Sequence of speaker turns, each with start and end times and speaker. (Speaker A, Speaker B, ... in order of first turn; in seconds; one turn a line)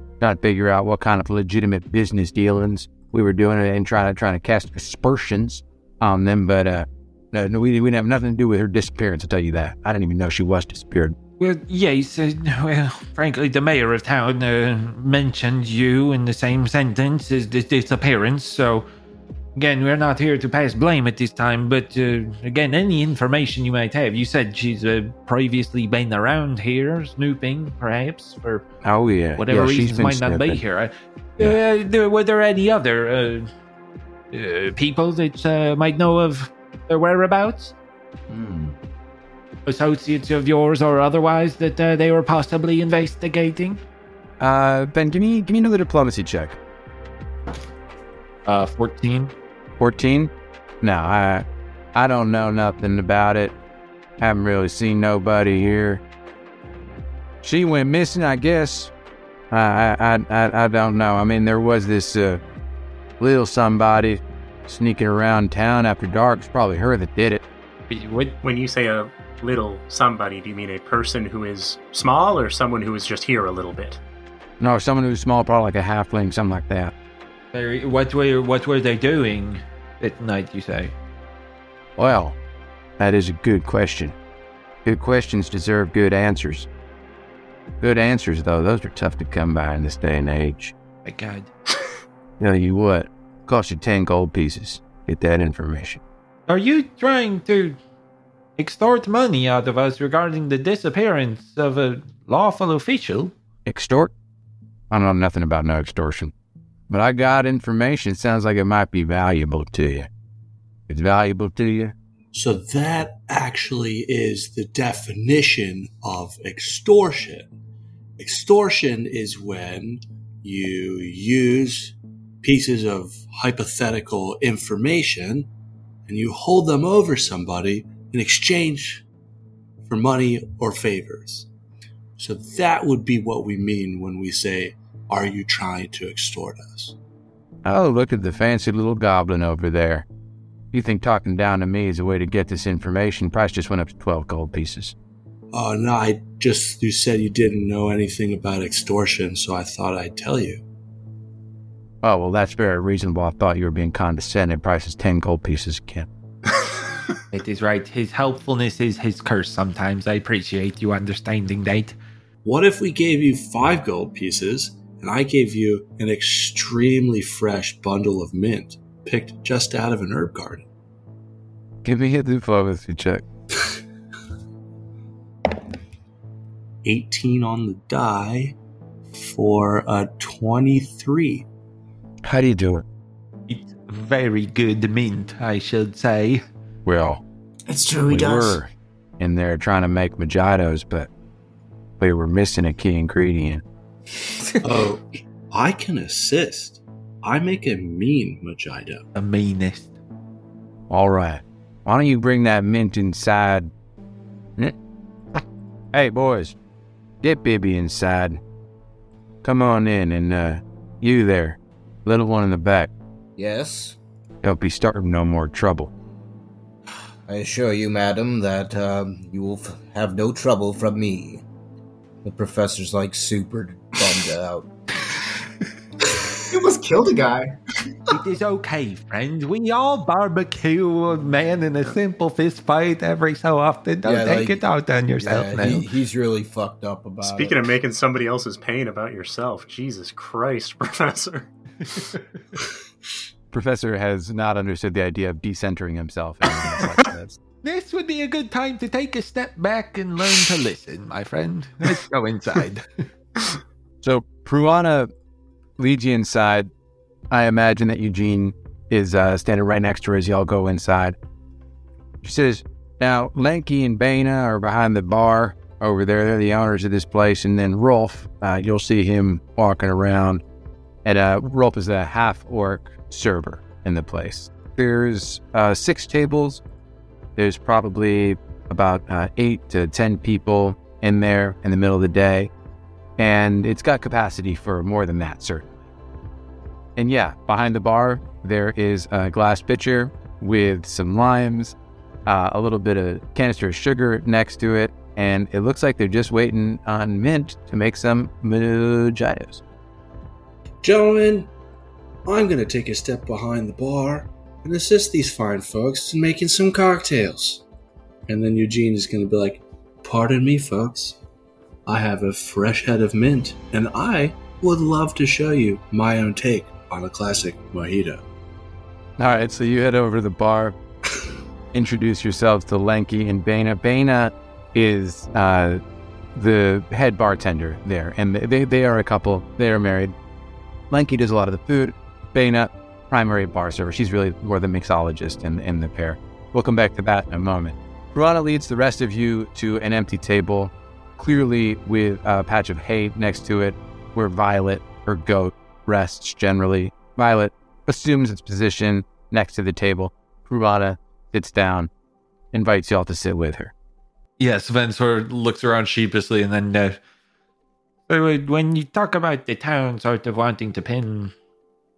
Speaker A: 0.2-11.2
Speaker B: 11.4-18.9
Speaker B: 19.6-28.6
Speaker A: 28.8-30.6
Speaker B: 29.4-33.5
Speaker B: 34.3-37.7
Speaker C: 38.3-38.7
Speaker B: 39.6-43.8
Speaker A: 44.4-46.6
Speaker B: 48.5-49.3
Speaker A: 49.8-50.3
Speaker A: 50.8-53.5
Speaker A: 54.2-56.0
Speaker A: 57.4-58.9
Speaker A: 59.5-62.4
Speaker A: 63.2-67.4
Speaker B: 67.9-68.4
Speaker D: 68.4-74.0
Speaker A: 74.6-76.9
Speaker B: 77.5-80.9
Speaker A: 82.0-82.4
Speaker A: 83.0-84.1
Speaker A: 84.8-86.7
Speaker A: 87.8-90.7
Speaker B: 91.0-91.5
Speaker A: 92.4-96.0
Speaker B: 96.5-97.8
Speaker B: 98.6-103.3
Speaker A: 103.7-104.1
Speaker A: 104.9-106.3
Speaker A: 106.9-110.1
Speaker A: 110.9-111.9
Speaker E: 112.3-117.5
Speaker E: 118.2-125.5
Speaker E: 126.1-129.0
Speaker E: 129.9-131.5
Speaker E: 132.2-137.0
Speaker A: 137.6-140.1
Speaker A: 140.7-144.9
Speaker E: 145.5-150.6
Speaker A: 152.0-156.1
Speaker B: 157.3-161.9
Speaker E: 162.4-170.7
Speaker A: 171.8-173.2
Speaker E: 176.8-178.6
Speaker E: 179.1-181.5
Speaker A: 182.2-182.8
Speaker B: 183.5-186.4
Speaker A: 186.8-187.2
Speaker C: 187.7-188.6
Speaker A: 188.1-191.1
Speaker A: 192.0-193.6
Speaker E: 194.6-199.0
Speaker B: 199.1-199.9
Speaker A: 200.9-203.7
Speaker A: 205.9-206.6
Speaker A: 207.2-208.4
Speaker A: 209.4-212.9
Speaker F: 213.4-214.0
Speaker A: 214.4-215.9
Speaker F: 217.3-221.4
Speaker F: 222.2-224.7
Speaker C: 226.5-227.6
Speaker B: 228.1-235.9
Speaker F: 234.0-234.6
Speaker F: 235.2-237.7
Speaker D: 237.2-241.5
Speaker A: 243.5-247.4
Speaker B: 247.6-252.8
Speaker A: 254.0-255.1
Speaker A: 255.8-256.7
Speaker A: 257.3-261.1
Speaker A: 262.2-270.4
Speaker A: 271.0-276.6
Speaker A: 277.4-282.5
Speaker A: 283.2-285.7
Speaker A: 287.0-299.6
Speaker E: 300.8-301.5
Speaker E: 302.2-307.6
Speaker E: 308.3-311.2
Speaker E: 311.9-318.2
Speaker A: 319.2-320.8
Speaker A: 321.7-325.8
Speaker A: 326.3-330.1
Speaker A: 330.9-351.9
Speaker A: 352.5-353.7
Speaker B: 354.4-357.0
Speaker B: 358.1-361.3